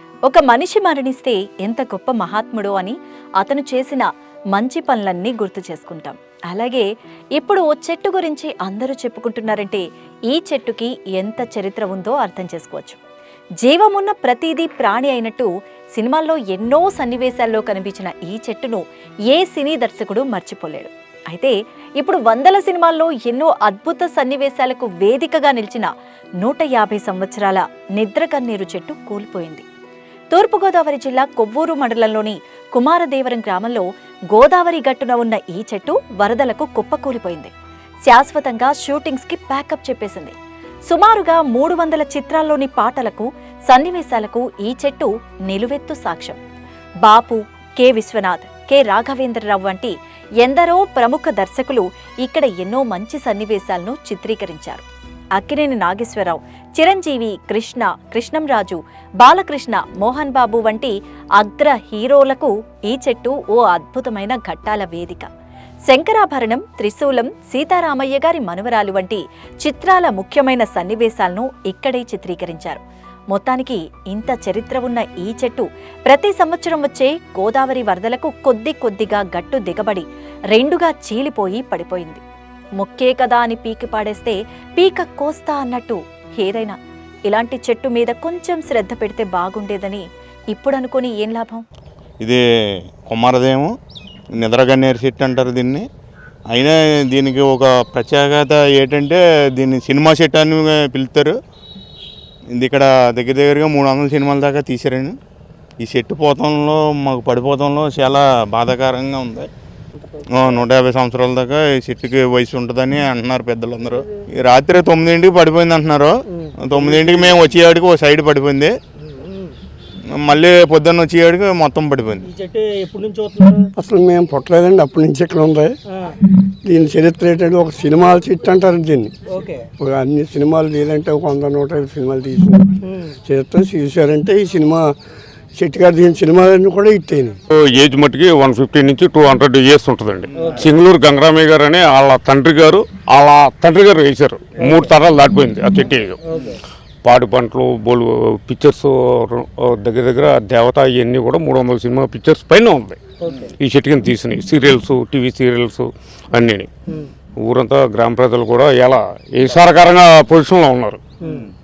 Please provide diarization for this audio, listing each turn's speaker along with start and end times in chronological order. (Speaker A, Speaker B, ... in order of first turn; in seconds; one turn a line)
Speaker A: 0.3-13.0
Speaker A: 13.6-25.9
Speaker A: 26.4-29.7
Speaker A: 30.3-37.5
Speaker A: 38.1-40.4
Speaker A: 40.9-46.4
Speaker A: 47.0-54.9
Speaker A: 55.4-65.3
Speaker A: 65.9-82.2
Speaker A: 82.8-86.8
Speaker A: 87.3-91.7
Speaker B: 93.1-93.7
Speaker B: 94.4-95.8
Speaker B: 96.5-101.3
Speaker B: 102.5-105.2
Speaker B: 105.8-109.5
Speaker B: 110.3-118.8
Speaker C: 116.9-117.4
Speaker C: 119.1-119.5
Speaker B: 120.2-122.3
Speaker C: 122.2-123.7
Speaker D: 123.8-125.8
Speaker D: 126.3-129.2
Speaker C: 129.3-129.7
Speaker D: 129.8-134.9
Speaker D: 135.6-137.4
Speaker E: 137.5-146.2
Speaker C: 140.4-140.6
Speaker C: 146.3-146.6
Speaker E: 147.0-156.7
Speaker C: 153.2-153.5
Speaker E: 157.4-161.0